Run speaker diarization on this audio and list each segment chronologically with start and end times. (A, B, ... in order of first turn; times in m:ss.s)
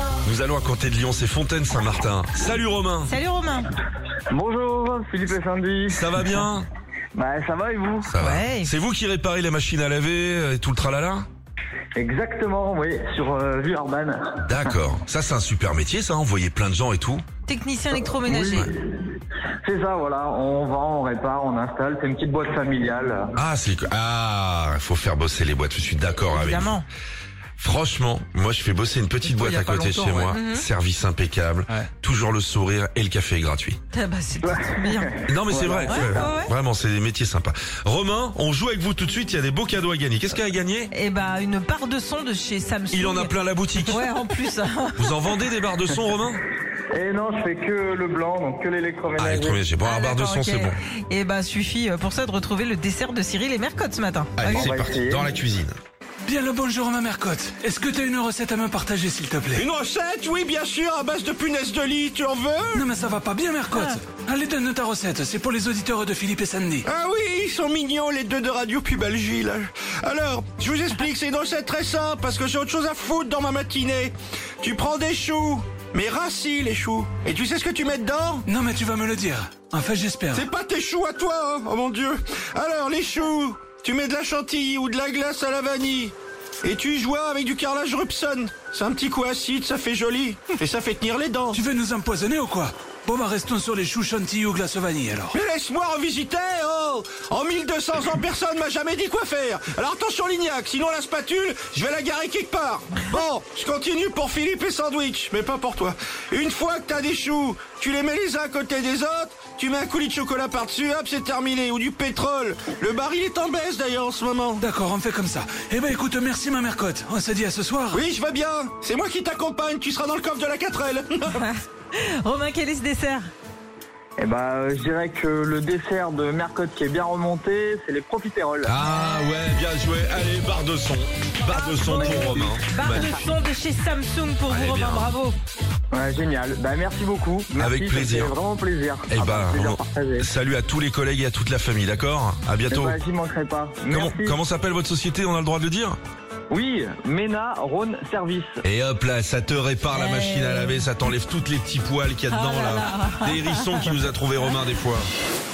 0:00.2-0:03.1 A
0:03.1-0:03.7 B
0:04.3-0:06.2 C
0:05.9-0:06.7 A
0:07.2-0:08.1 C
0:08.1-0:11.3 A
0:08.2-0:08.7 B
0:12.0-0:14.7 C
0:14.4-0:17.2 A
0:17.5-0:18.6 B
0:17.9-0:18.8 C
0:19.6-0:23.4 C
0:23.4-0:26.8 A
0:26.3-0:26.8 B
0:27.6-0:33.8 A
0:29.3-0:30.6 B
0:33.9-0:35.1 B
0:34.4-0:36.4 C
0:35.3-0:40.9 A
0:35.9-0:36.5 B
0:40.9-0:43.3 B
0:42.9-0:44.1 A
0:43.9-0:45.2 B
0:45.0-0:46.4 A
0:46.9-0:49.6 C
0:49.2-0:50.8 A
0:49.8-0:54.6 B
0:54.4-0:55.8 A
0:54.4-0:55.3 C
0:56.2-0:59.7 D
0:59.6-1:02.8 E
1:00.9-1:02.4 A
1:02.7-1:06.9 D
1:06.9-1:18.4 E
1:09.2-1:09.6 A
1:18.5-1:20.4 D
1:20.3-1:31.6 E
1:31.5-1:35.4 D
1:35.3-1:54.6 E
1:54.6-1:58.0 D
1:57.9-2:01.4 E
2:01.4-2:03.3 B
2:04.2-2:08.8 C
2:08.6-2:13.2 A
2:11.5-2:13.0 C
2:12.7-2:15.4 B
2:14.5-2:15.1 A
2:15.9-2:20.3 C
2:17.6-2:18.4 A
2:19.1-2:23.0 A
2:22.7-2:24.4 C
2:23.9-2:26.0 A
2:26.5-2:28.6 C
2:28.6-2:35.1 A
2:29.9-2:30.8 B
2:32.3-2:33.6 B